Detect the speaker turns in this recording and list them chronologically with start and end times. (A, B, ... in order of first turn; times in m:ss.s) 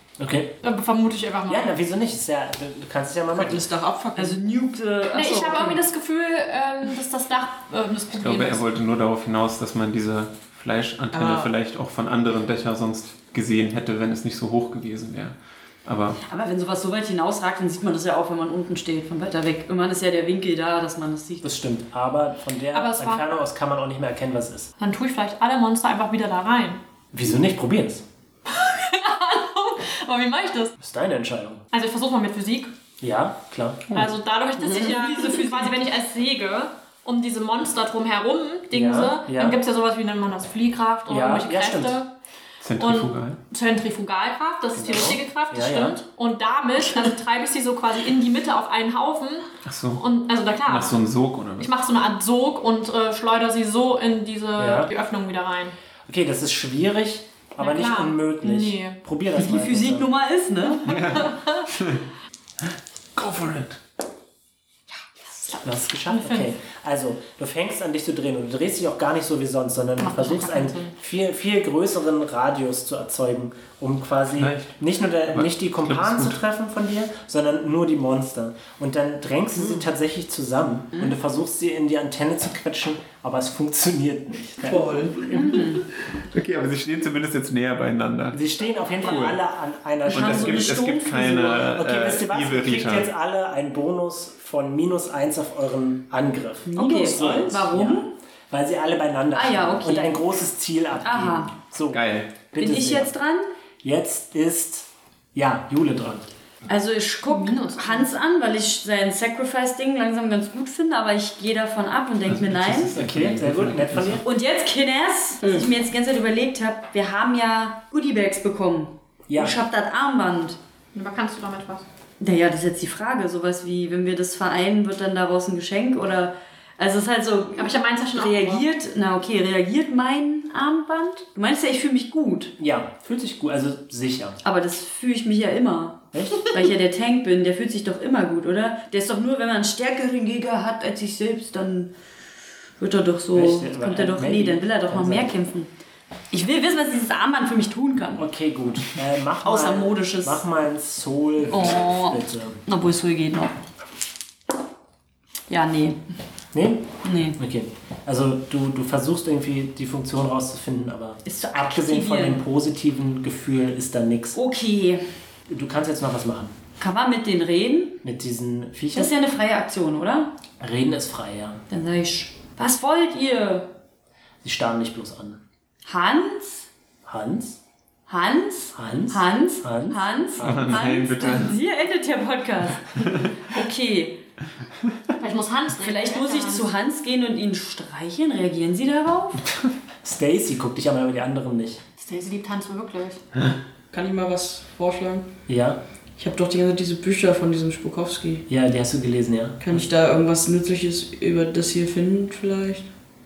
0:00.2-0:00.6 A
0:00.6-0:01.8 B
0:01.5-0:03.6 A
0:03.3-0:04.4 C
0:04.2-0:05.8 D
0:05.1-0:08.6 B
0:08.2-0:16.2 E
0:11.1-0:11.5 C
0:16.2-0:21.5 D
0:21.4-0:24.7 A
0:22.7-0:23.2 B
0:24.8-0:26.8 B
0:27.1-0:28.0 A
0:28.5-0:30.7 B
0:30.8-0:31.6 A
0:31.7-0:32.7 B
0:33.0-0:33.9 A
0:33.9-0:42.1 B
0:34.6-0:35.7 D
0:38.7-0:39.6 A
0:41.1-0:42.0 A
0:42.6-0:43.4 E
0:42.8-0:51.0 B
0:44.7-0:46.0 A
0:49.6-0:50.0 E
0:50.6-0:51.7 E
0:51.6-0:55.8 B
0:54.6-0:54.9 A
0:56.1-1:00.1 A
0:57.6-0:59.0 B
0:59.3-1:01.0 D
1:00.8-1:01.7 B
1:00.8-1:02.0 E
1:03.2-1:03.8 E
1:05.4-1:06.5 B
1:05.6-1:25.6 A
1:10.0-1:10.9 B
1:14.4-1:14.7 E
1:15.3-1:16.4 E
1:19.6-1:19.8 C
1:24.6-1:25.7 C
1:25.3-1:25.8 D
1:26.3-1:28.4 E
1:28.3-1:30.8 A
1:29.0-1:29.4 E
1:30.1-1:31.7 D
1:30.1-1:33.1 E
1:31.6-1:43.1 A
1:36.7-1:38.1 D
1:39.3-1:40.2 D
1:41.0-1:41.5 D
1:41.9-1:42.3 E
1:42.6-1:43.5 D
1:43.8-1:46.3 A
1:46.7-1:52.9 D
1:47.3-1:48.1 B
1:52.3-1:54.2 E
1:52.9-1:54.2 A
1:54.2-2:00.6 D
1:59.3-1:59.6 A
2:00.9-2:01.8 B
2:02.2-2:12.5 D
2:07.6-2:08.6 B
2:12.6-2:14.4 A
2:14.4-2:21.9 D
2:16.1-2:16.5 A
2:22.8-2:25.7 D
2:23.3-2:25.3 A
2:26.3-2:28.2 D
2:28.1-2:32.6 A
2:29.4-2:30.4 D
2:31.5-2:33.5 D
2:35.5-2:36.0 D
2:36.5-2:44.4 A
2:37.0-2:37.4 D
2:41.2-2:42.4 D
2:44.3-2:45.0 D
2:45.5-2:46.5 A
2:46.8-2:48.0 D
2:48.0-2:49.1 A
2:48.9-2:50.3 D
2:50.6-2:51.6 A
2:51.7-2:53.7 D
2:54.4-2:55.4 A
2:55.8-2:56.7 D
2:57.0-2:57.6 A
2:58.1-3:04.2 D
2:58.7-3:00.8 A
3:00.4-3:01.6 E
3:03.0-3:03.3 E
3:05.2-3:06.7 B
3:05.8-3:09.4 D
3:10.0-3:11.8 A
3:12.0-3:13.2 B
3:13.9-3:15.3 C
3:15.5-3:15.8 A
3:16.2-3:18.4 C
3:18.5-3:19.9 A
3:19.6-3:22.9 C